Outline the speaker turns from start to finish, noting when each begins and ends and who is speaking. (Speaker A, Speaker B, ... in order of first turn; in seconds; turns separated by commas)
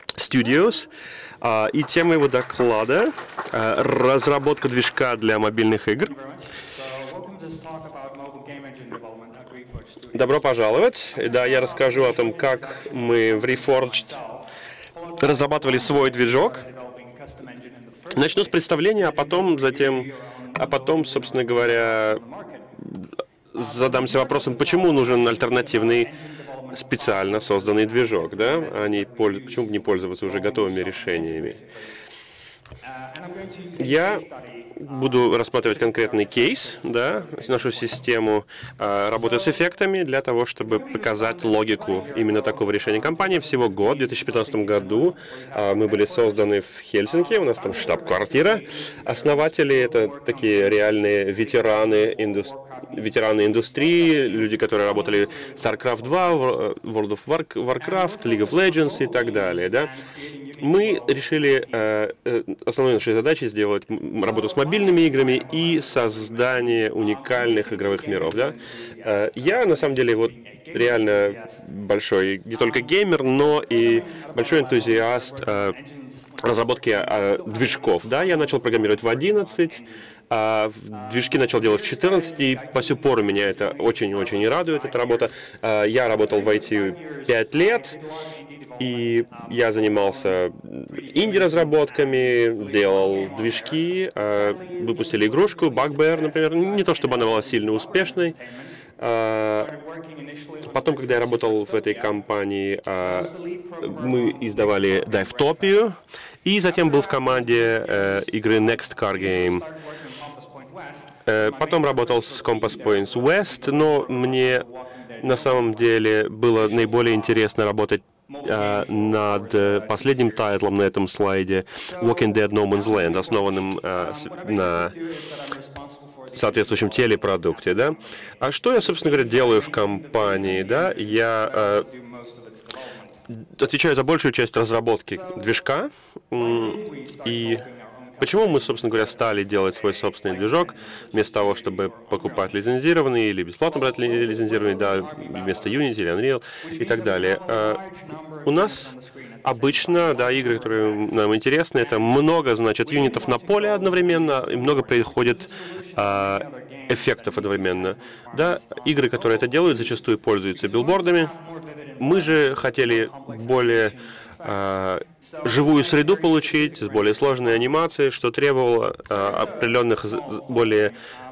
Speaker A: 0.2-0.9, Speaker A: 1.4-6.2, Speaker B: 6.8-9.9, Speaker A: 10.1-14.2, Speaker A: 15.2-16.6, Speaker B: 16.9-18.1, Speaker A: 18.1-22.2, Speaker A: 22.8-26.1, Speaker B: 25.0-25.6, Speaker A: 26.7-31.6, Speaker B: 33.1-33.8, Speaker A: 33.8-59.9, Speaker B: 41.4-42.6, Speaker B: 47.8-48.4, Speaker A: 60.6-75.8, Speaker B: 67.3-68.2, Speaker B: 73.7-75.1, Speaker A: 76.4-88.0, Speaker A: 88.8-98.4, Speaker B: 95.9-97.2, Speaker A: 99.0-99.8, Speaker B: 100.2-100.6, Speaker A: 100.6-109.7, Speaker B: 103.5-103.8, Speaker B: 110.2-111.0, Speaker A: 111.2-114.7, Speaker B: 113.6-114.4, Speaker A: 115.2-125.0, Speaker B: 125.5-126.0, Speaker A: 126.3-131.9, Speaker B: 132.1-132.8, Speaker A: 133.3-137.7, Speaker B: 137.1-138.9, Speaker A: 138.2-147.8, Speaker A: 148.4-161.3, Speaker B: 156.3-156.8, Speaker B: 161.4-162.0, Speaker A: 162.0-170.9